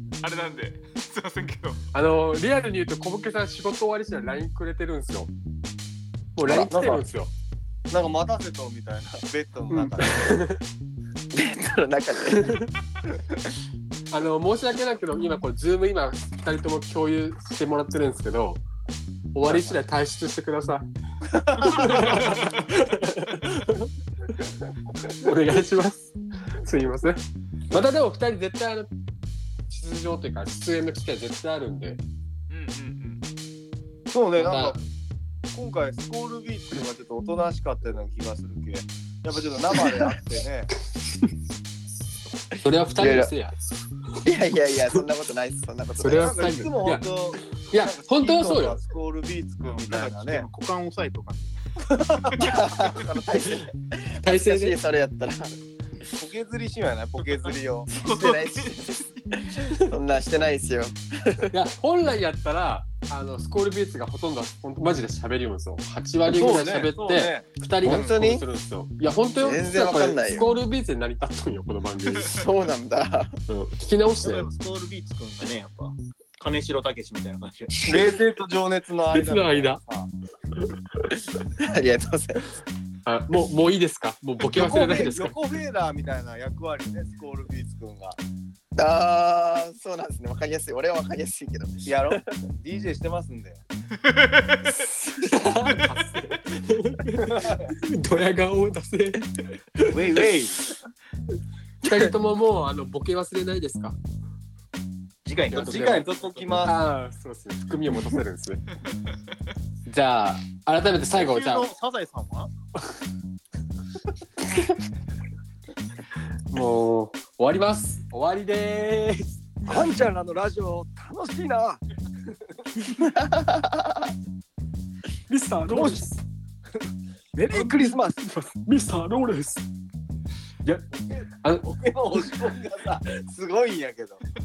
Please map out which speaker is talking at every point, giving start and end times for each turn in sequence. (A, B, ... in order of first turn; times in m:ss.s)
0:00.2-0:01.8 A
0:01.9-0:05.3 B
0:06.4-0:07.3 B
0:06.5-0:06.7 C
0:06.5-0:07.0 D
0:07.9-0:10.4 D
0:09.7-0:10.6 B
0:11.3-0:12.6 C
0:12.4-0:12.7 B
0:14.1-0:18.6 B
0:19.3-0:20.8 B
0:21.3-0:22.4 D
0:21.6-0:24.4 B
0:22.3-0:22.6 A
0:25.0-0:28.9 B
0:29.7-0:32.0 B
0:32.5-0:33.2 A
0:34.1-0:34.8 D
0:34.4-0:34.8 B
0:35.5-0:40.7 D
0:42.6-0:43.6 B
0:43.0-0:43.3 C
0:44.2-0:46.7 C
0:46.0-0:47.0 B
0:46.1-0:50.5 D
0:47.7-0:48.8 B
0:49.7-0:51.6 E
0:52.0-0:52.9 D
0:52.3-0:55.5 C
0:54.2-0:54.8 B
0:56.2-0:57.9 D
0:57.9-1:01.6 C
0:58.0-0:58.8 A
1:01.5-1:12.4 B
1:06.3-1:08.4 D
1:07.9-1:08.4 C
1:09.4-1:10.5 C
1:12.2-1:13.3 C
1:13.5-1:14.5 B
1:14.2-1:17.9 E
1:17.8-1:20.1 D
1:19.1-1:19.8 B
1:21.6-1:22.4 C
1:23.0-1:25.3 B
1:24.4-1:28.2 D
1:28.7-1:32.2 C
1:31.8-1:33.6 D
1:34.0-1:34.7 A
1:34.7-1:35.4 C
1:35.2-1:39.2 B
1:37.2-1:37.7 D
1:39.8-1:40.3 B
1:39.9-1:40.7 E
1:41.8-1:44.0 B
1:45.2-1:46.6 E
1:45.5-1:46.1 B
1:45.5-1:46.7 D
1:46.6-1:48.6 B
1:49.9-1:51.7 B
1:51.1-1:52.5 E
1:56.5-1:59.9 B
1:59.6-2:01.8 D
2:02.9-2:04.0 C
2:05.3-2:06.2 B
2:05.7-2:06.0 D
2:07.3-2:08.2 D
2:07.5-2:09.6 B
2:10.9-2:14.2 D
2:11.4-2:11.7 B